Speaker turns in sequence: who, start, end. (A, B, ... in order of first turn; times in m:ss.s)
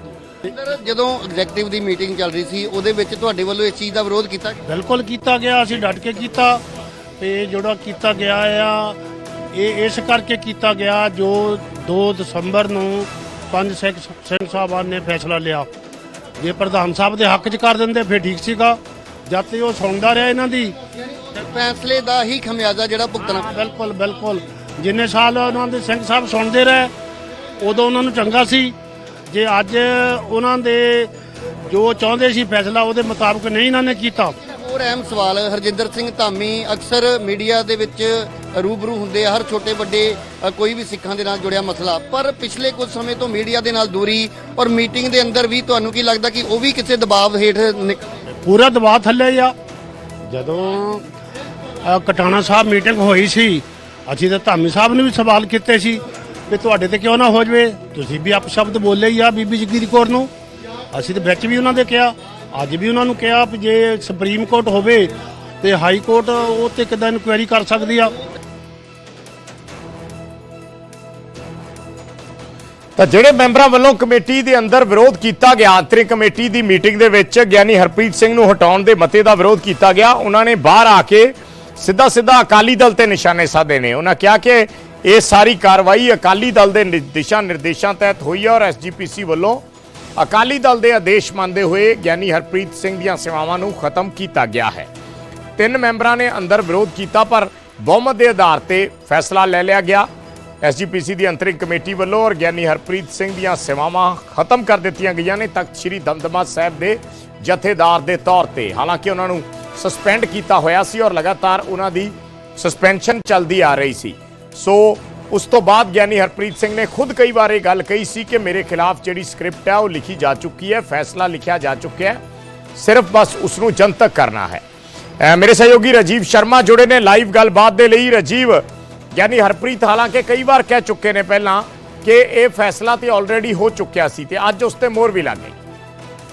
0:00.4-0:04.6 A
0:04.6-0:06.6 B
0:07.2-0:09.0 B
0:09.5-0:15.7 B
0:16.4-0:20.8 B
0:21.3-0:23.5 A
0:23.4-0:26.9 B
0:27.6-0:28.7 B
0:29.3-0:31.1 B
0:31.7-0:34.3 B
0:34.4-0:48.1 A
0:48.4-0:49.5 B
0:50.3-0:51.0 B
0:51.8-1:00.3 B
1:00.9-1:08.2 B
1:13.0-1:29.6 C
1:30.2-1:34.9 C
1:35.6-1:40.1 C
1:40.6-2:02.2 C
2:02.8-2:04.6 C
2:05.2-2:08.6 C
2:09.1-2:15.6 C